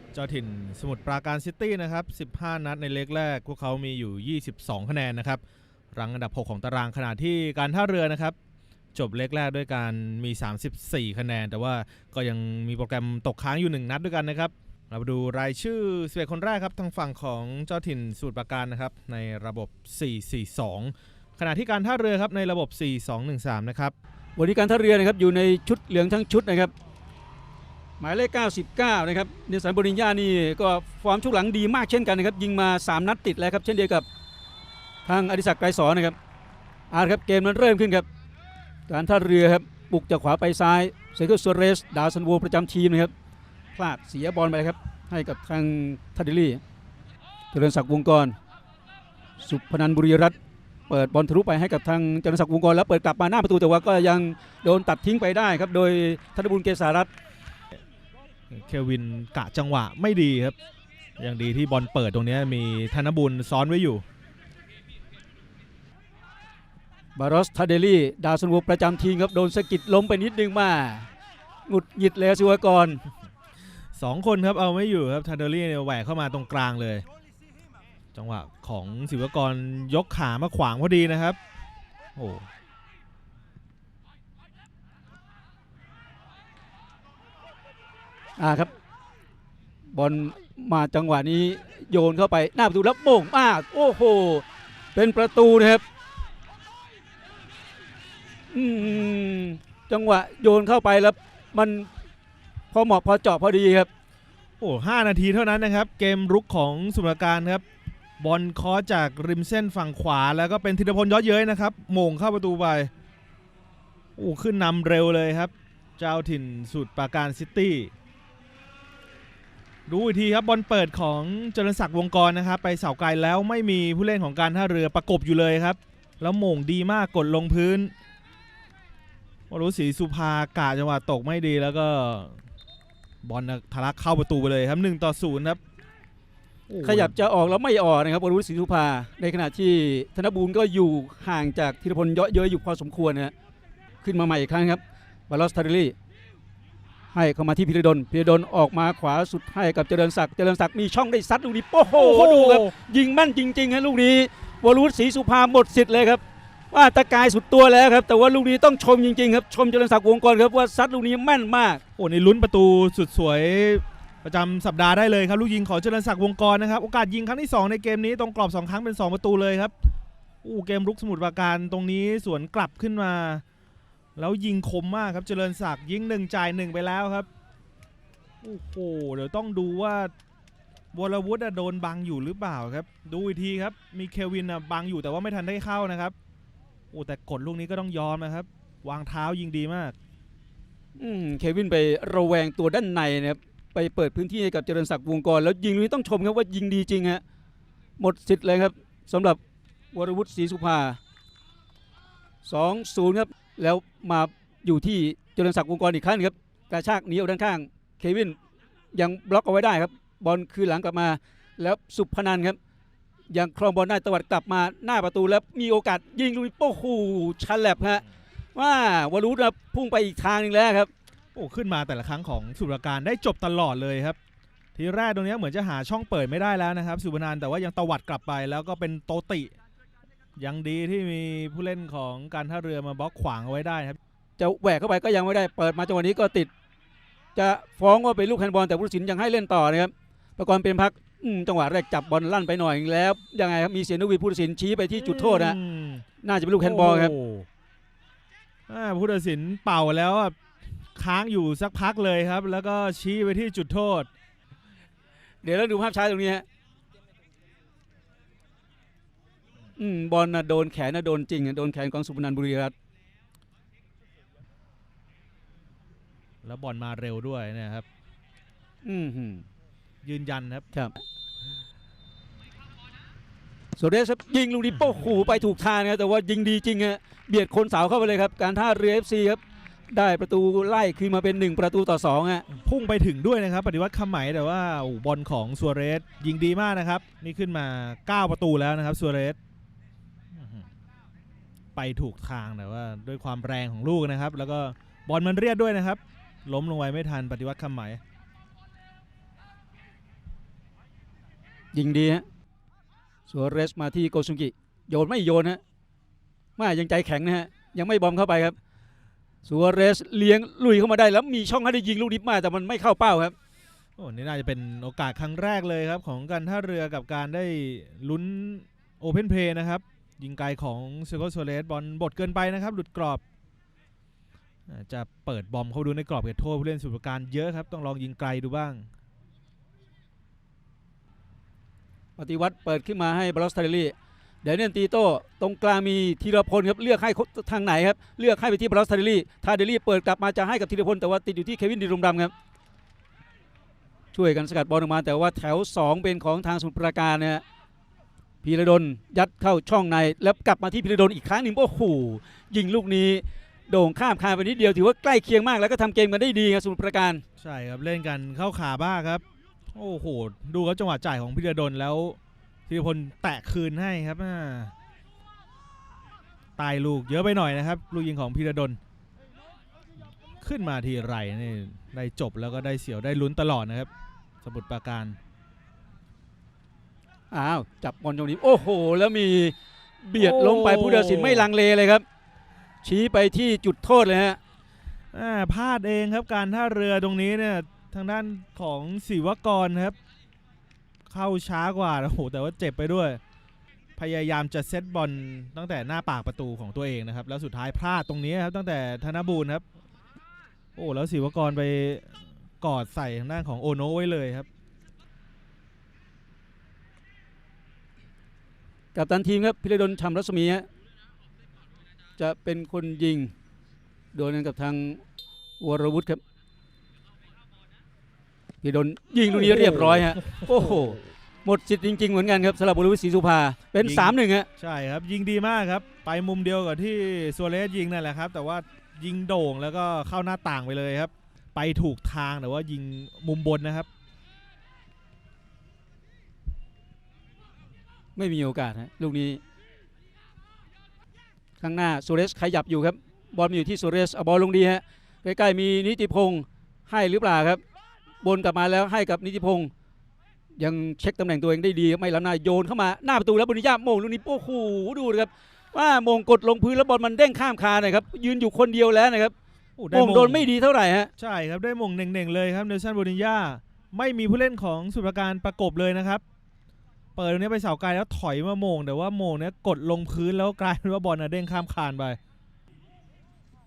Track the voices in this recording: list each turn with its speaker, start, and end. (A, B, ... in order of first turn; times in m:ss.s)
0:00.1-0:05.4 A
0:05.9-0:08.4 A
0:09.0-0:24.0 A
0:24.4-0:26.7 B
0:28.0-0:34.1 B
0:35.1-0:36.2 B
0:36.9-0:38.1 B
0:38.9-0:43.1 B
0:43.8-0:46.6 B
0:47.5-0:48.4 B
0:49.4-0:50.4 B
0:50.9-0:57.1 B
0:58.5-1:00.6 A
1:01.2-1:04.0 A
1:07.2-1:11.1 B
1:11.7-1:13.0 B
1:14.0-1:17.0 A
1:18.2-1:21.4 A
1:22.2-1:22.5 A
1:28.4-1:28.7 B
1:29.9-1:35.8 B
1:38.5-1:41.9 B
1:42.7-1:43.9 B
1:44.6-1:47.6 A
1:48.2-1:52.9 A
1:54.2-1:57.9 A
1:59.9-2:07.9 A
2:09.5-2:12.4 A
2:13.2-2:15.6 A
2:16.7-2:17.2 A
2:16.8-2:23.3 B
2:24.0-2:26.0 B
2:27.1-2:41.8 B
2:31.9-2:32.7 A
2:42.0-2:49.7 A
2:50.4-2:53.4 A
2:54.2-2:57.3 A
2:58.4-3:00.1 A
3:00.9-3:06.2 A
3:06.9-3:10.0 A
3:11.0-3:17.2 B
3:18.0-3:19.4 B
3:19.9-3:21.0 B
3:22.4-3:28.4 B
3:28.9-3:32.6 B
3:33.3-3:38.0 B
3:38.6-3:40.9 B
3:41.4-3:44.2 A
3:44.8-3:49.5 A
3:50.4-3:54.0 A
3:54.4-3:56.5 B
3:57.4-4:05.6 B
4:05.0-4:06.0 A
4:06.2-4:07.2 B
4:06.6-4:07.5 A
4:08.7-4:10.4 A
4:11.0-4:14.1 A
4:15.4-4:16.4 B
4:19.8-4:22.7 B
4:26.4-4:27.9 A
4:28.8-4:29.4 B
4:30.0-4:30.7 A
4:30.7-4:31.0 B
4:33.8-4:39.4 B
4:39.9-4:42.4 B
4:42.5-4:49.4 A
4:50.3-4:50.7 A
4:51.8-4:58.0 A
5:01.7-5:02.2 B
5:03.3-5:05.6 B
5:06.6-5:08.6 B
5:09.4-5:13.4 B
5:14.0-5:23.2 A
5:24.7-5:28.9 A
5:32.2-5:42.3 B
5:44.1-5:47.4 B
5:48.4-5:57.2 B
5:57.4-5:59.2 A
5:59.7-6:04.7 A
6:06.6-6:08.8 A
6:10.4-6:13.9 A
6:14.4-6:15.2 A
6:17.3-6:22.0 B
6:20.2-6:21.5 A
6:22.8-6:24.4 B
6:25.1-6:30.0 A
6:31.1-6:33.2 A
6:34.0-6:39.6 A
6:40.8-6:44.5 A
6:49.0-6:50.7 B
6:52.2-6:53.3 B
6:54.1-6:55.0 B
6:55.6-6:56.2 B
6:58.6-7:04.5 B
6:59.3-7:01.0 A
7:03.8-7:13.9 A
7:18.2-7:19.4 B
7:21.6-7:27.6 B
7:28.2-7:29.7 B
7:30.6-7:39.3 B
7:39.8-7:40.5 A
7:39.9-7:41.1 B
7:41.2-7:46.2 A
7:47.2-7:52.2 A